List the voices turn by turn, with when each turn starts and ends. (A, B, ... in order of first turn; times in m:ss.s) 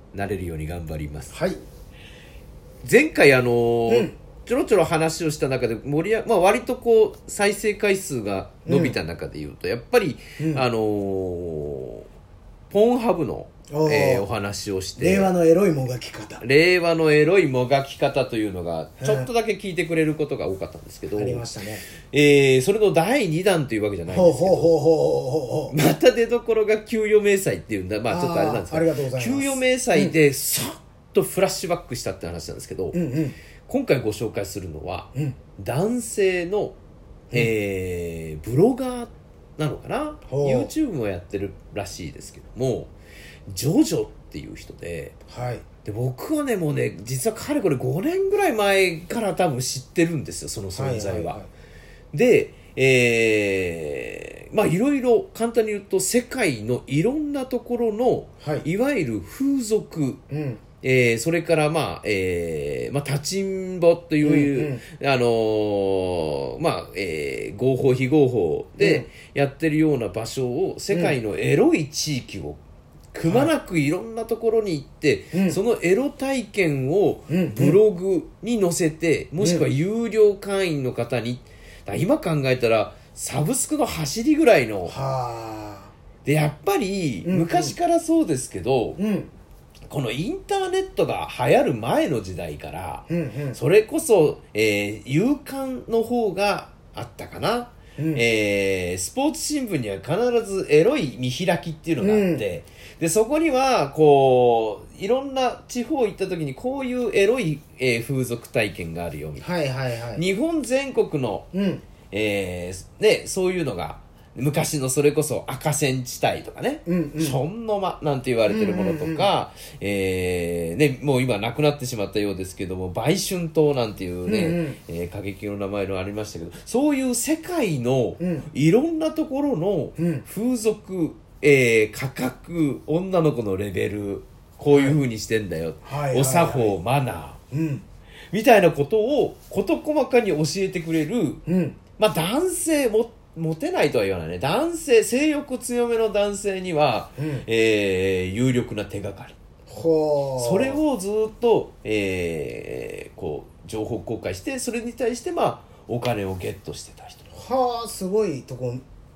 0:00.1-0:01.4 A
0:01.3-0:01.6 B
0:02.8-0:12.1 A
0:03.9-0:04.1 B
0:08.7-0:09.0 B
0:10.4-0:10.7 B
0:12.7-0:15.3 A
0:13.7-0:14.3 B
0:15.0-0:16.4 B
0:16.4-0:21.5 A
0:19.0-0:19.3 B
0:21.1-0:21.9 B
0:22.1-0:24.7 A
0:24.1-0:25.8 B
0:25.7-0:33.0 A
0:28.1-0:30.2 B
0:32.9-0:33.4 B
0:33.6-0:36.8 A
0:37.3-0:42.9 A
0:40.3-0:40.7 B
0:43.5-0:45.2 A
0:45.3-0:45.7 B
0:45.8-0:51.4 A
0:50.8-0:51.5 B
0:52.1-1:00.2 A
0:58.4-0:58.7 B
1:00.3-1:00.6 B
1:00.8-1:12.6 A
1:04.2-1:04.8 B
1:08.8-1:09.1 B
1:10.9-1:11.2 B
1:13.1-1:25.0 A
1:13.3-1:13.5 B
1:15.3-1:15.6 B
1:17.3-1:17.8 B
1:19.4-1:19.7 B
1:24.9-1:25.9 B
1:26.2-1:29.0 A
1:27.2-1:27.8 B
1:29.0-1:29.3 B
1:29.9-1:49.5 A
1:33.1-1:33.6 B
1:38.0-1:38.2 B
1:42.0-1:42.4 B
1:49.4-1:50.2 B
1:50.1-1:51.5 A
1:51.5-1:51.8 B
1:52.0-2:17.4 A
1:56.9-1:57.4 B
1:58.5-1:59.3 B
2:04.3-2:04.8 B
2:08.2-2:08.5 B
2:10.0-2:10.2 B
2:14.7-2:15.0 B
2:15.8-2:16.8 B
2:17.5-2:17.9 B
2:18.3-2:21.4 A
2:21.5-2:21.8 B
2:21.9-2:29.4 A
2:27.2-2:27.5 B
2:29.7-2:30.8 B
2:30.4-2:37.3 A
2:37.3-2:38.8 B